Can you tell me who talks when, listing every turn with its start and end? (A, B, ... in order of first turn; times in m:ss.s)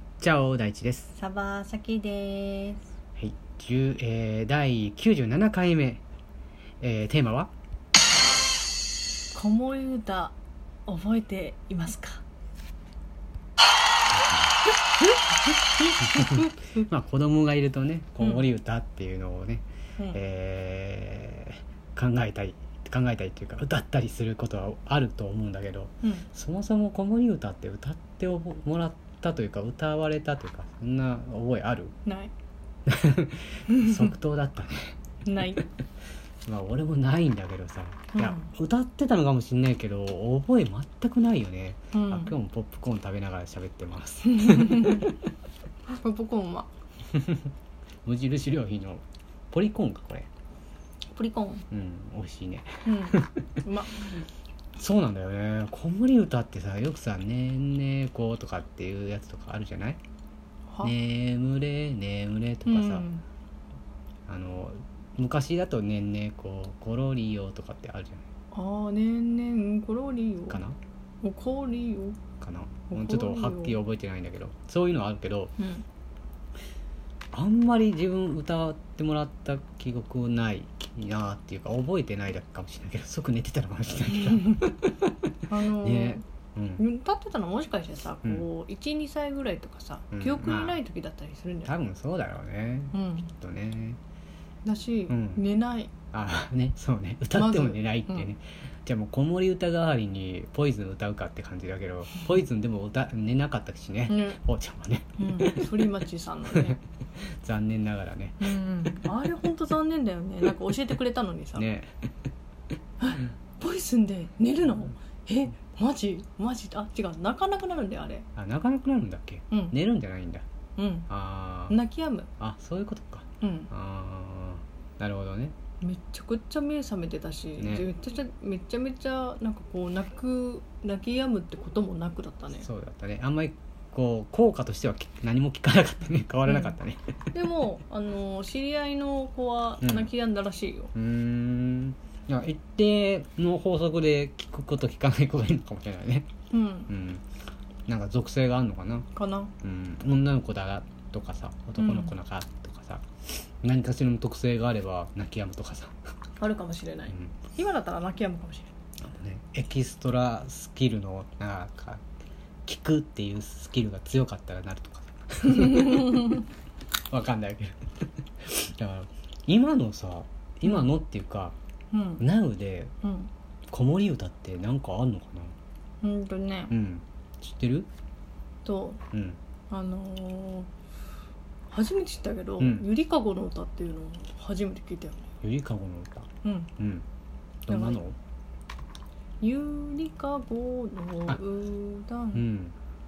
0:00.2-0:01.1 A
0:01.1-0:02.9 B
0:03.2-0:06.0 A
0:06.8-0:07.5 A
0:09.3-0:10.3 B
0:10.8-0:12.2 B
0:15.8-0:16.8 B
0:16.0-0:31.9 A
0:32.0-0:32.3 B
0:32.8-0:35.0 A
0:33.7-0:34.0 B
0:35.2-0:35.6 B
0:36.4-0:45.1 A
0:38.1-0:38.5 B
0:41.9-0:42.3 B
0:44.2-0:45.1 B
0:45.9-0:46.7 B
0:47.1-0:47.4 A
0:48.0-0:50.3 A
0:51.1-0:51.6 B
0:51.7-0:53.4 A
0:52.8-0:54.2 B
0:54.8-1:00.0 A
1:00.8-1:03.0 A
1:02.7-1:03.2 B
1:04.3-1:08.2 A
1:08.5-1:10.6 B
1:10.5-1:10.8 A
1:11.2-1:12.2 B
1:12.4-1:15.5 A
1:12.9-1:13.8 B
1:15.6-1:15.8 B
1:17.3-1:25.1 A
1:24.1-1:24.6 B
1:25.5-1:26.2 B
1:25.8-1:26.8 A
1:26.8-1:31.7 B
1:30.1-1:30.8 A
1:31.6-1:34.0 A
1:32.9-1:33.3 B
1:34.6-1:35.9 B
1:35.1-1:35.4 A
1:36.1-1:45.6 A
1:37.3-1:38.3 B
1:44.1-1:44.4 B
1:45.2-1:46.8 B
1:46.5-1:48.5 A
1:48.4-1:51.7 B
1:51.6-1:52.0 A
1:53.0-1:58.3 B
1:58.4-2:00.4 A
1:59.5-1:59.8 B
2:00.8-2:01.1 B
2:01.1-2:01.8 A
2:01.7-2:02.3 B
2:02.4-2:05.6 A
2:03.4-2:03.7 B
2:05.8-2:12.7 B
2:07.6-2:07.9 A
2:12.6-2:17.2 A
2:16.4-2:16.7 B
2:17.3-2:20.9 B
2:19.8-2:20.1 A
2:20.9-2:26.3 A
2:26.5-2:26.9 B
2:26.9-2:27.2 A
2:27.9-2:29.1 A
2:29.1-2:29.5 B
2:29.6-2:35.9 A
2:31.8-2:32.1 B
2:36.4-2:38.7 B
2:39.0-2:42.0 A
2:42.6-2:46.4 A
2:45.5-2:46.4 B
2:47.1-2:51.5 A
2:51.9-2:52.2 B
2:52.2-2:52.9 A
2:53.0-2:53.3 B
2:53.7-2:55.5 A
2:56.0-2:56.7 B
2:56.7-2:57.9 A
2:58.6-2:59.0 B
2:59.1-2:59.4 A
2:59.7-3:00.7 B
3:01.7-3:05.3 B
3:02.6-3:02.8 A
3:05.4-3:07.0 A
3:06.4-3:06.7 B
3:07.6-3:08.2 A
3:07.7-3:08.0 B
3:09.4-3:12.4 B
3:12.3-3:12.7 A